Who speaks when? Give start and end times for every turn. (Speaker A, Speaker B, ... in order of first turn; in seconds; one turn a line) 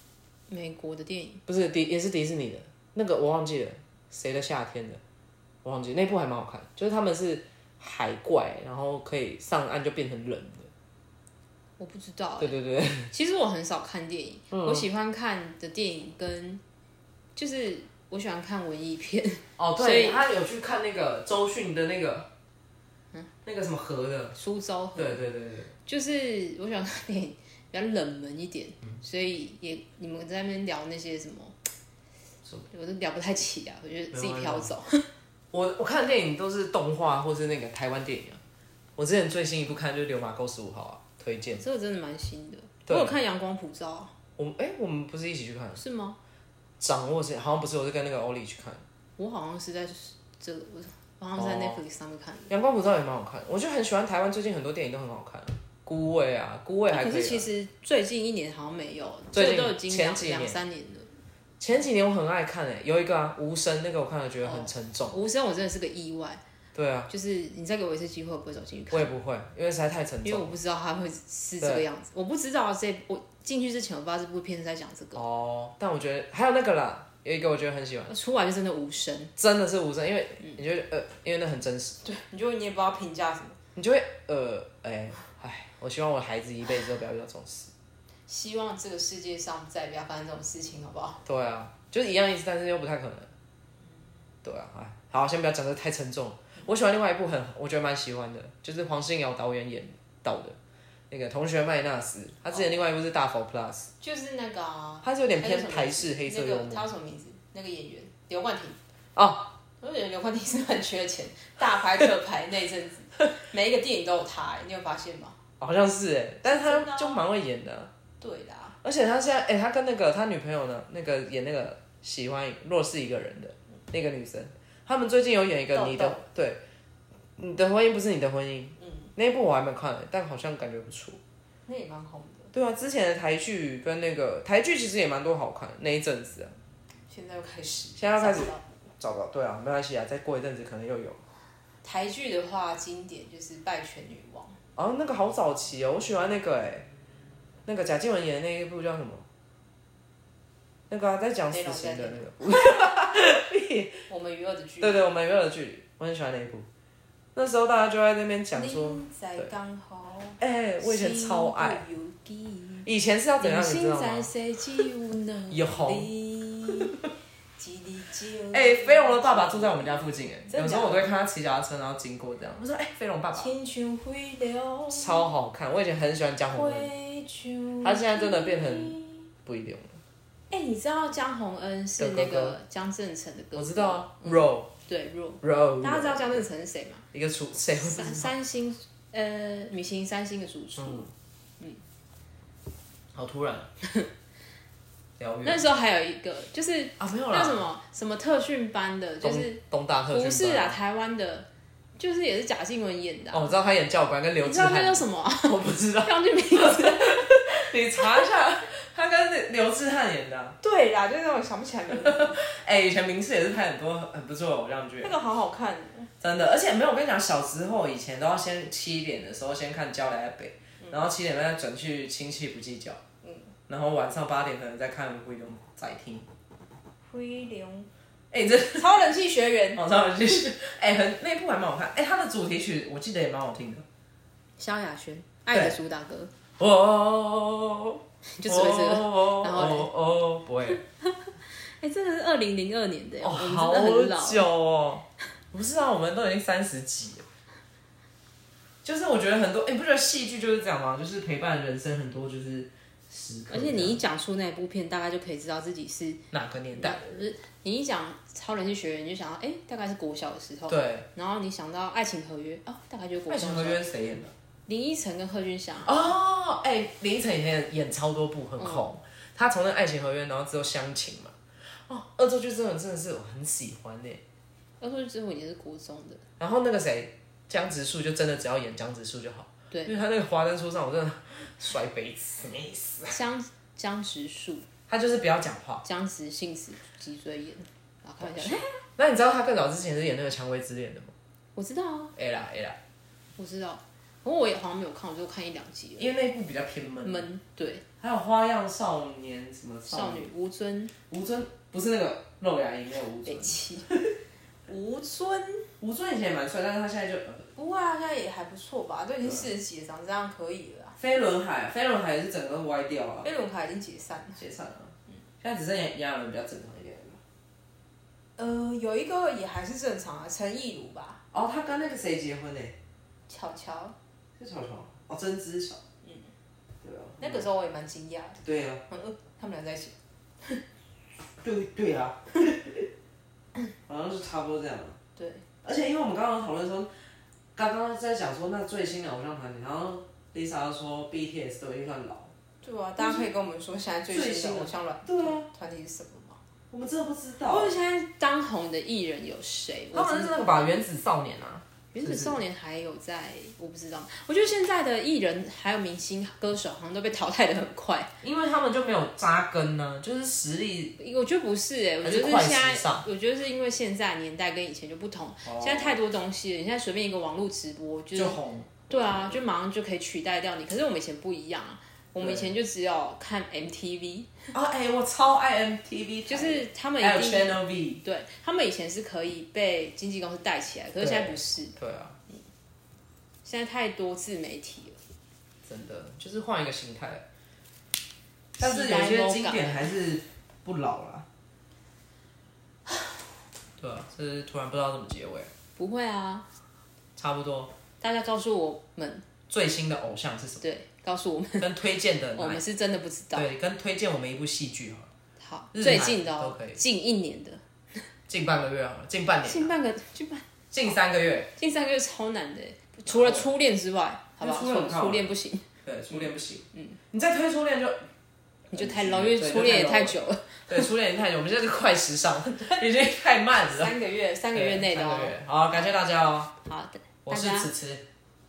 Speaker A: 0.5-1.4
Speaker B: 1.5-5.0
Speaker B: 5.6-10.7
Speaker A: 11.8-12.5
Speaker B: 12.4-13.1
Speaker A: 13.1-16.6
Speaker B: 14.5-14.9
Speaker A: 17.4-20.2
Speaker B: 19.6-22.3
Speaker B: 23.4-24.4
Speaker A: 24.3-25.2
Speaker B: 24.9-25.7
Speaker A: 25.8-31.6
Speaker A: 32.7-35.1
Speaker B: 34.1-34.7
Speaker B: 35.5-38.4
Speaker B: 39.0-41.6
Speaker A: 41.6-44.1
Speaker B: 42.9-43.2
Speaker B: 44.4-45.8
Speaker A: 45.8-46.2
Speaker B: 46.8-48.8
Speaker A: 49.2-52.5
Speaker B: 51.4-51.8
Speaker B: 52.5-57.5
Speaker A: 56.9-61.1
Speaker B: 59.3-60.6
Speaker B: 61.6-65.2
Speaker A: 64.4-66.4
Speaker B: 66.7-67.1
Speaker A: 67.1-69.1
Speaker B: 68.9-70.5
Speaker A: 70.2-75.2
Speaker B: 75.1-78.1
Speaker A: 78.1-79.3
Speaker B: 79.4-82.0
Speaker A: 82.0-83.6
Speaker B: 83.8-87.7
Speaker A: 88.3-91.2
Speaker B: 91.2-93.3
Speaker B: 94.4-100.6
Speaker B: 101.1-103.9
Speaker A: 104.0-108.8
Speaker B: 105.0-106.9
Speaker B: 109.2-109.5
Speaker A: 109.8-115.4
Speaker B: 115.6-117.9
Speaker A: 116.4-117.2
Speaker A: 118.2-118.8
Speaker B: 118.8-126.6
Speaker A: 125.7-126.2
Speaker B: 127.4-131.2
Speaker A: 128.8-129.1
Speaker A: 131.7-132.5
Speaker B: 132.5-136.5
Speaker A: 137.1-138.6
Speaker B: 138.0-141.2
Speaker A: 141.8-144.6
Speaker B: 144.8-146.9
Speaker B: 147.7-149.2
Speaker B: 150.9-154.0
Speaker A: 151.5-153.0
Speaker A: 154.1-155.0
Speaker B: 154.8-156.7
Speaker B: 157.3-159.5
Speaker A: 158.5-162.9
Speaker B: 160.4-161.8
Speaker B: 162.8-164.3
Speaker A: 163.4-167.0
Speaker B: 165.5-166.1
Speaker A: 167.6-171.1
Speaker B: 168.5-173.5
Speaker A: 173.3-175.3
Speaker B: 174.9-176.9
Speaker A: 176.5-179.3
Speaker B: 177.8-180.0
Speaker A: 180.5-187.0
Speaker B: 182.0-182.6
Speaker B: 183.5-184.7
Speaker B: 185.4-186.4
Speaker B: 187.1-188.3
Speaker A: 187.7-191.1
Speaker B: 190.8-191.1
Speaker B: 193.1-193.7
Speaker A: 193.8-194.1
Speaker B: 195.2-195.6
Speaker A: 195.4-203.5
Speaker B: 197.0-197.6
Speaker B: 199.2-200.8
Speaker B: 203.3-210.6
Speaker A: 204.4-208.1
Speaker A: 210.6-212.4
Speaker B: 211.9-215.2
Speaker A: 215.0-216.1
Speaker B: 216.2-223.0
Speaker A: 223.2-223.5
Speaker B: 223.7-226.3
Speaker A: 227.1-227.9
Speaker B: 228.3-229.0
Speaker A: 228.7-229.8
Speaker B: 229.7-233.8
Speaker A: 234.6-236.3
Speaker B: 236.6-240.8
Speaker A: 238.2-239.9
Speaker A: 241.0-244.5
Speaker B: 243.2-247.2
Speaker B: 248.8-254.0
Speaker A: 253.5-256.2
Speaker B: 256.3-257.1
Speaker A: 256.7-263.8
Speaker B: 260.7-261.1
Speaker B: 263.3-264.3
Speaker A: 264.7-266.1
Speaker B: 265.8-271.3
Speaker A: 268.6-268.9
Speaker B: 271.9-274.2
Speaker A: 274.8-276.2
Speaker B: 276.4-283.2
Speaker A: 283.1-284.6
Speaker B: 284.9-285.8
Speaker A: 285.8-288.7
Speaker B: 288.2-291.1
Speaker A: 291.6-292.1
Speaker B: 292.1-292.8
Speaker A: 293.4-296.1
Speaker B: 296.0-297.2
Speaker A: 297.0-297.8
Speaker B: 298.0-300.3
Speaker A: 299.9-300.9
Speaker B: 301.1-304.1
Speaker A: 303.2-303.9
Speaker A: 304.7-305.7
Speaker B: 305.8-307.5
Speaker A: 307.6-310.9
Speaker B: 311.0-313.3
Speaker A: 313.2-314.4
Speaker B: 314.4-317.2
Speaker A: 318.4-321.2
Speaker B: 321.3-322.8
Speaker A: 323.3-323.9
Speaker B: 324.4-325.8
Speaker A: 326.0-326.3
Speaker B: 326.8-327.5
Speaker A: 327.2-330.6
Speaker B: 328.4-328.8
Speaker B: 331.4-332.9
Speaker B: 333.9-335.0
Speaker A: 335.1-335.4
Speaker B: 335.6-336.9
Speaker B: 337.6-342.3
Speaker A: 342.6-346.4
Speaker B: 343.0-343.3
Speaker B: 344.1-345.5
Speaker B: 346.7-347.8
Speaker A: 347.4-350.8
Speaker B: 349.9-352.4
Speaker A: 351.9-358.1
Speaker B: 358.2-360.9
Speaker A: 361.0-374.5
Speaker B: 362.0-363.0
Speaker B: 365.4-366.0
Speaker B: 368.1-368.7
Speaker B: 372.2-372.5
Speaker B: 374.5-378.0
Speaker A: 376.3-381.8
Speaker B: 381.0-382.2
Speaker A: 383.4-385.0
Speaker B: 385.7-387.2
Speaker B: 388.6-391.3
Speaker A: 388.6-389.9
Speaker B: 393.8-395.5
Speaker A: 395.8-396.4
Speaker B: 397.2-397.7
Speaker A: 398.0-399.3
Speaker B: 399.5-400.6
Speaker A: 400.6-401.7
Speaker B: 401.6-402.6
Speaker A: 402.3-403.5
Speaker B: 403.3-405.1
Speaker A: 405.4-408.0
Speaker B: 405.7-406.8
Speaker B: 408.3-409.7
Speaker A: 409.4-410.5
Speaker B: 410.7-411.5
Speaker A: 411.6-417.0
Speaker B: 413.1-413.5
Speaker B: 414.4-415.2
Speaker B: 415.8-418.0
Speaker A: 418.7-420.9
Speaker B: 418.7-420.2
Speaker B: 420.7-423.9
Speaker A: 423.6-425.4
Speaker B: 424.5-426.5
Speaker A: 426.6-427.7
Speaker B: 427.2-428.0